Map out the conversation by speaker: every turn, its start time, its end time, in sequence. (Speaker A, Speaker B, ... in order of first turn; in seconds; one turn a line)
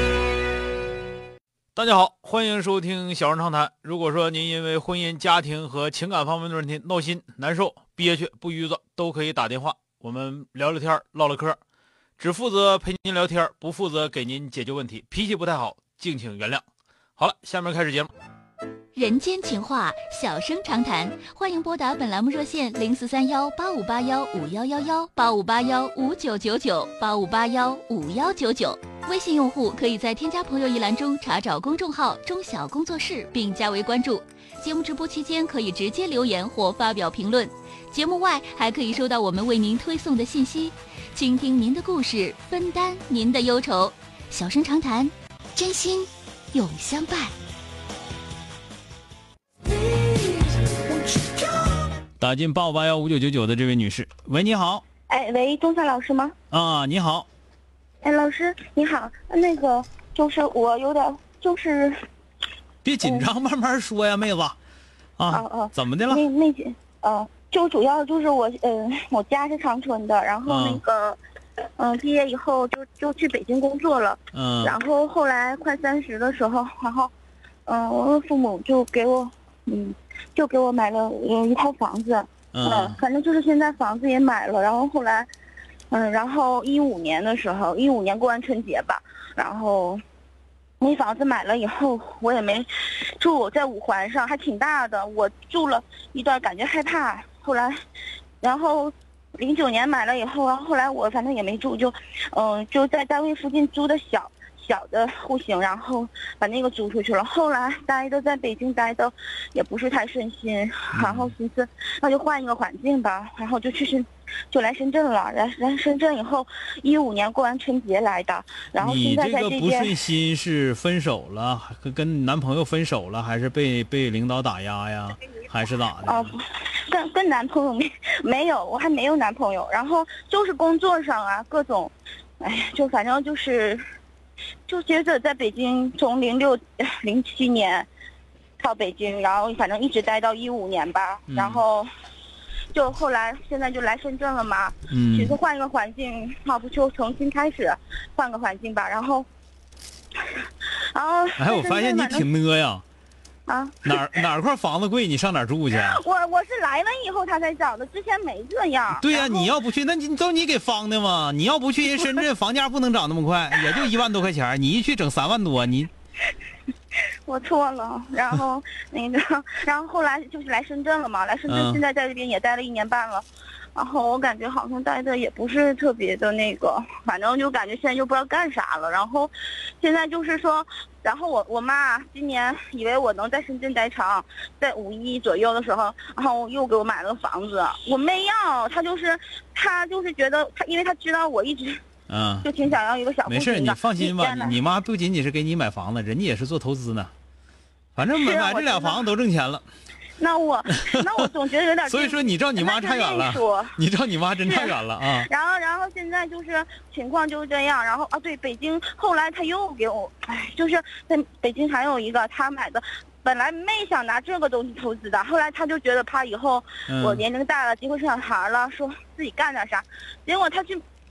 Speaker A: 1.8-11.6
Speaker A: 12.2-16.6
Speaker A: 17.2-18.1
Speaker B: 18.9-47.4
Speaker A: 52.2-54.8
Speaker C: 55.1-56.3
Speaker A: 56.5-57.3
Speaker C: 58.0-62.0
Speaker A: 62.8-64.6
Speaker C: 63.0-63.3
Speaker A: 65.2-66.2
Speaker C: 65.3-71.2
Speaker A: 70.5-70.8
Speaker C: 71.8-77.1
Speaker A: 74.3-74.8
Speaker C: 77.7-85.3
Speaker A: 82.5-83.0
Speaker C: 85.9-90.0
Speaker C: 90.8-97.8
Speaker C: 98.4-119.9
Speaker A: 110.9-111.3
Speaker A: 118.8-126.4
Speaker C: 126.0-133.8
Speaker C: 134.7-137.9
Speaker C: 138.6-141.9
Speaker A: 141.3-141.6
Speaker C: 142.7-149.3
Speaker A: 144.9-145.4
Speaker C: 150.3-152.3
Speaker A: 151.4-152.8
Speaker C: 153.5-154.1
Speaker A: 153.8-156.0
Speaker C: 155.8-159.5
Speaker A: 158.9-165.9
Speaker C: 167.2-191.8
Speaker A: 171.5-171.8
Speaker A: 192.1-192.5
Speaker C: 192.4-194.6
Speaker A: 193.2-197.1
Speaker A: 198.0-199.7
Speaker C: 198.2-199.0
Speaker C: 200.2-203.8
Speaker A: 200.7-201.0
Speaker A: 201.9-205.3
Speaker C: 204.4-220.8
Speaker A: 216.9-217.2